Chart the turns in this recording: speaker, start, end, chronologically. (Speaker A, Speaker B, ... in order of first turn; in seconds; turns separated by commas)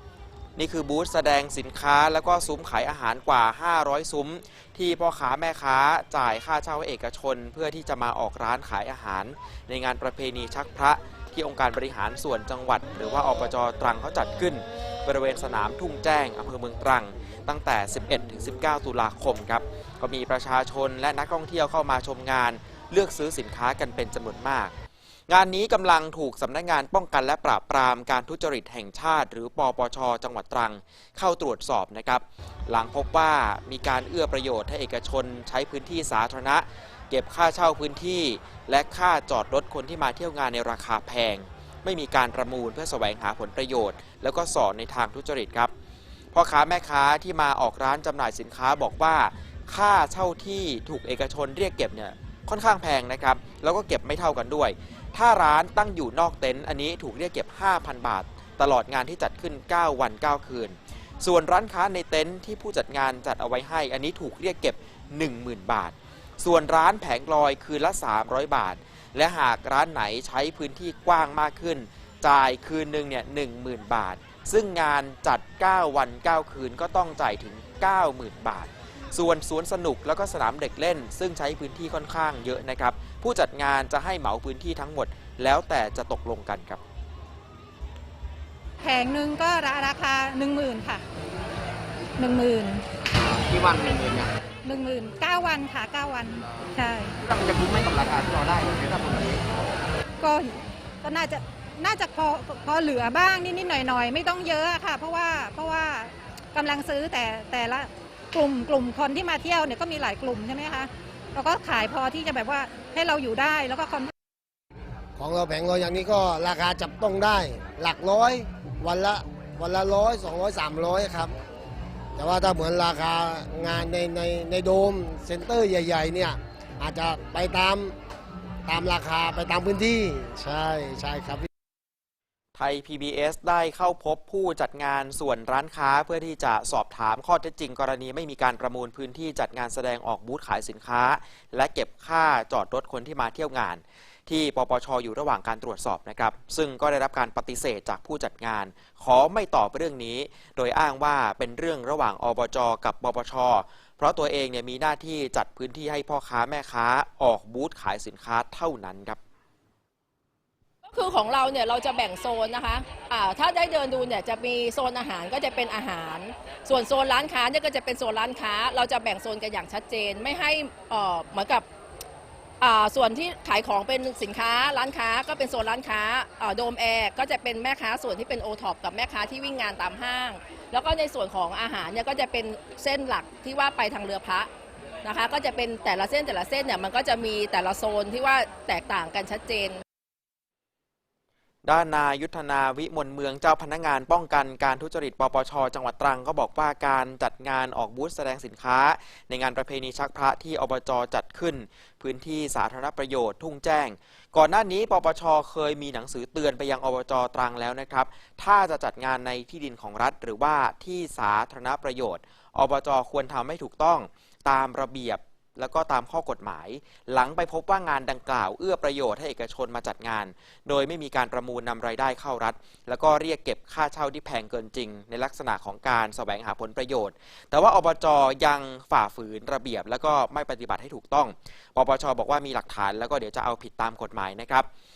Speaker A: 0.6-24.7, Speaker A: 25.3-45.7, Speaker A: 46.3-86.8, Speaker B: 88.8-91.0, Speaker B: 92.2-92.8, Speaker C: 93.1-94.3, Speaker B: 94.6-97.1, Speaker C: 97.2-99.7, Speaker B: 100.2-114.1, Speaker D: 115.2-121.3, Speaker D: 122.2-128.0, Speaker D: 128.7-131.5, Speaker A: 132.5-159.2, Speaker E: 160.9-171.6, Speaker E: 172.6-184.5, Speaker E: 185.0-189.8, Speaker A: 191.6-234.7